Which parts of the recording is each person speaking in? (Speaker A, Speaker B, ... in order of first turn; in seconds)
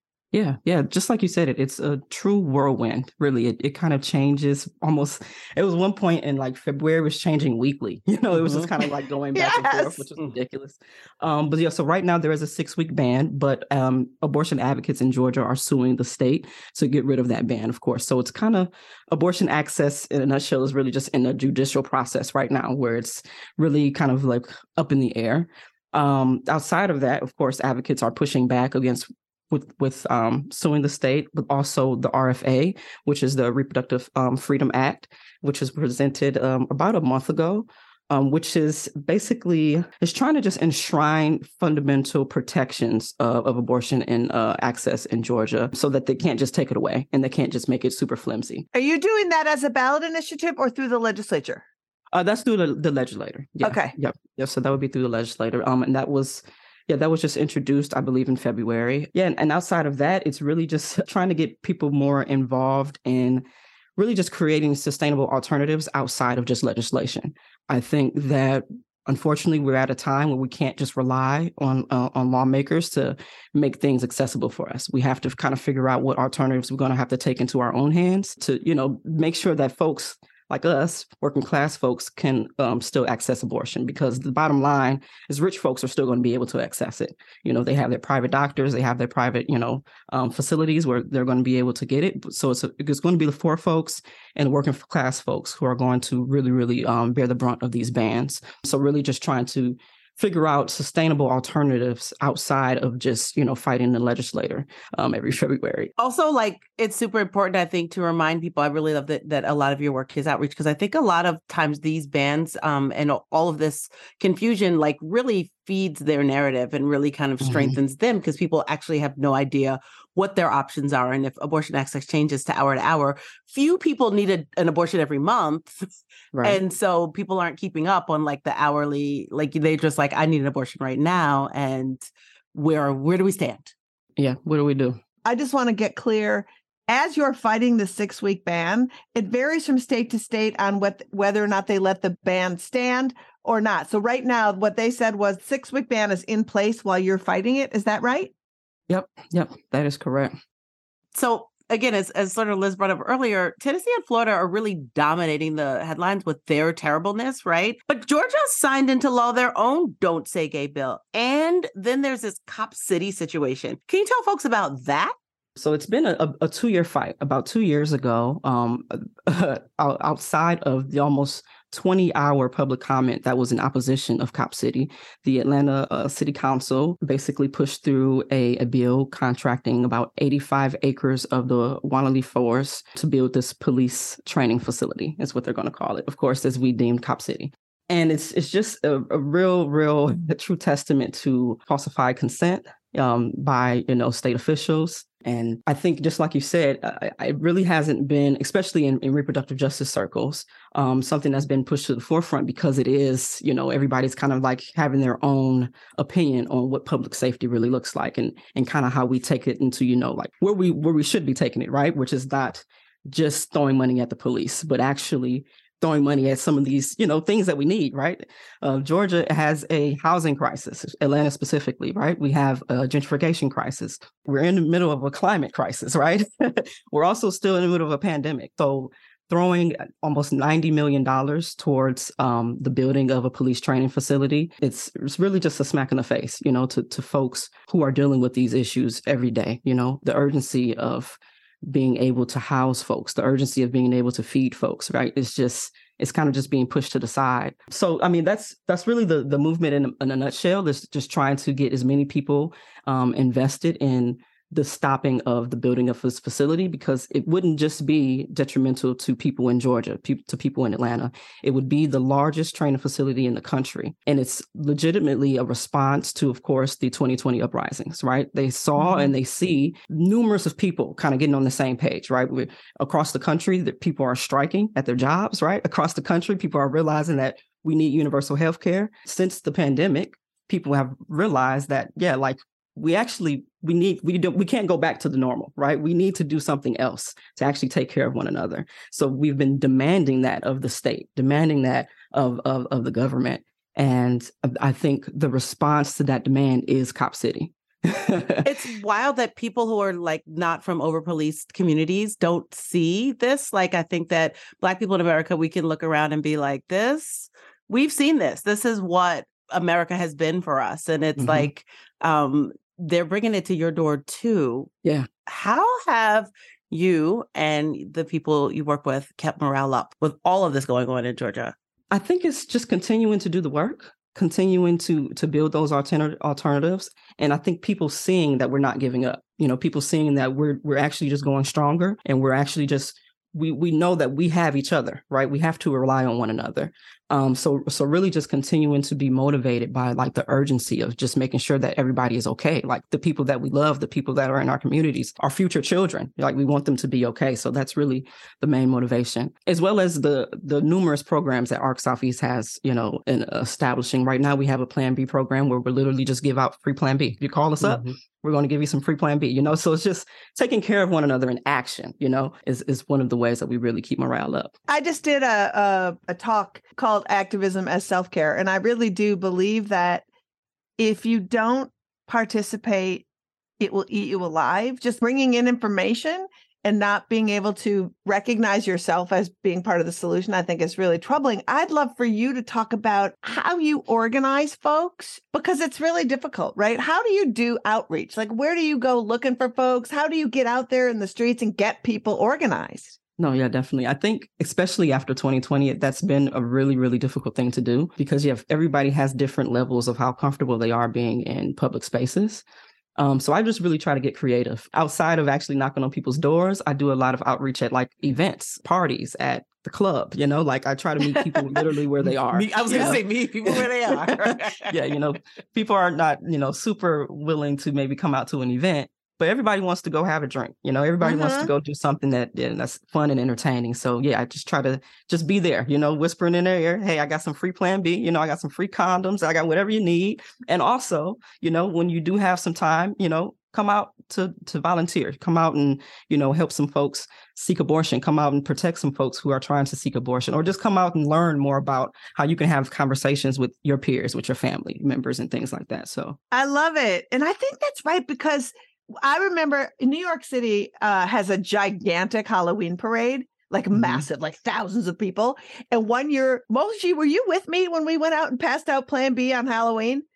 Speaker A: 0.3-48.7, 52.1-63.5, 64.0-105.9, 117.4-117.8, 126.3-126.6, 134.2-135.0, 148.9-150.4, 165.6-298.5, 311.2-311.5, 321.9-364.5, 393.2-402.4, 403.0-413.7, 414.7-446.2, 453.7-454.1
Speaker B: 9.3-10.1, 48.7-51.6, 53.6-54.0, 135.2-148.3, 364.7-370.0, 370.8-373.1, 373.6-393.0, 421.0-421.5, 446.3-460.1
Speaker C: 106.0-125.8, 126.4-133.7, 151.1-165.1, 298.4-314.7, 315.2-321.6, 411.1-411.6, 412.3-414.8